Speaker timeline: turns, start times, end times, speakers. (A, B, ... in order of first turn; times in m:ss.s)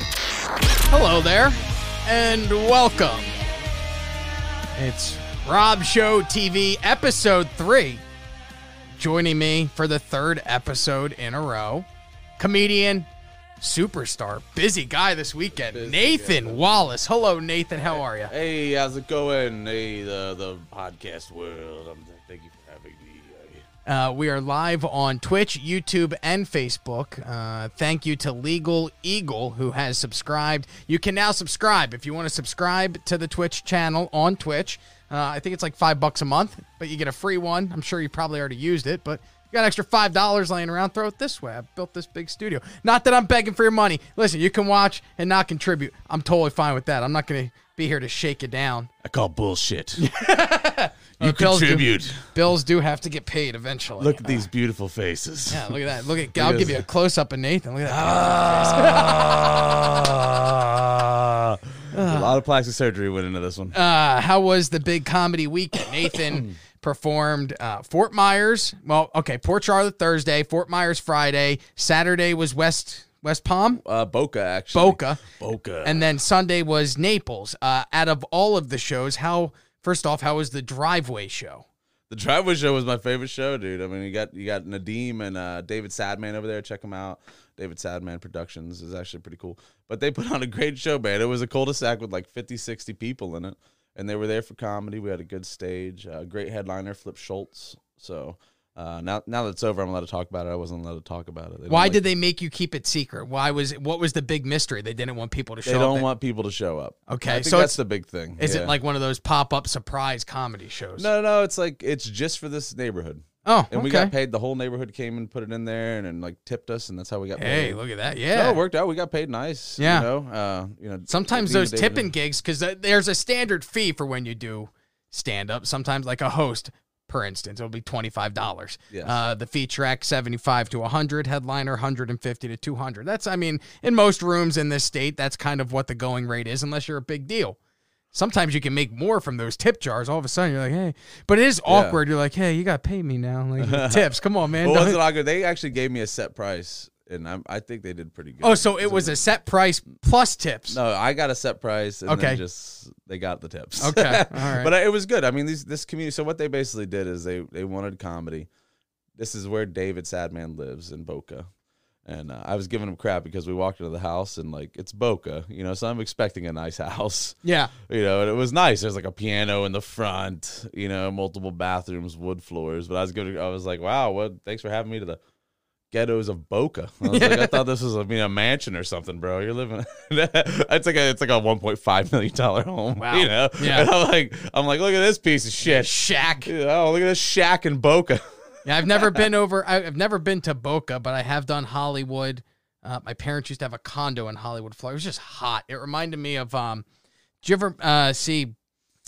0:00.9-0:03.3 A
0:04.8-0:08.0 A
0:09.0-0:11.8 A
0:12.4-0:13.1 A
0:13.6-0:18.3 A
0:15.7-0:16.9 B
0:17.7-0:23.6 B
0:23.8-0:48.9 A
0:49.0-0:50.1 B
0:50.0-0:54.4 A
0:51.2-0:52.3 B
0:54.0-0:55.7 B
0:55.5-0:59.3 A
0:56.3-0:56.8 B
0:57.8-1:03.8 B
1:01.9-1:02.4 A
1:03.7-1:13.8 A
1:06.1-1:06.5 B
1:13.7-1:16.1 B
1:14.7-1:15.2 A
1:15.8-1:21.6 A
1:22.1-1:42.1 B
1:41.7-1:46.1 A
1:45.6-1:48.7 B
1:47.1-1:47.8 A
1:48.4-1:51.1 A
1:51.0-1:57.8 B
1:53.4-1:54.1 A
1:57.4-1:58.6 A
1:58.3-2:02.1 B
1:59.8-2:00.1 A
2:01.1-2:17.6 A
2:08.9-2:09.2 B
2:18.1-2:25.0 A
2:21.7-2:22.0 B
2:23.6-2:29.2 B
2:28.4-2:30.8 A
2:30.7-2:38.5 B
2:32.1-2:32.4 A
2:33.8-2:34.7 A
2:39.2-2:41.5 B
2:42.0-2:47.4 B
2:47.4-2:47.7 A
2:47.9-2:55.2 B
2:55.9-3:05.9 B
2:57.0-2:57.6 A
3:03.0-3:03.9 A
3:05.6-3:06.5 A
3:06.4-3:08.2 B
3:08.6-3:16.8 A
3:08.9-3:09.2 B
3:17.4-3:18.5 A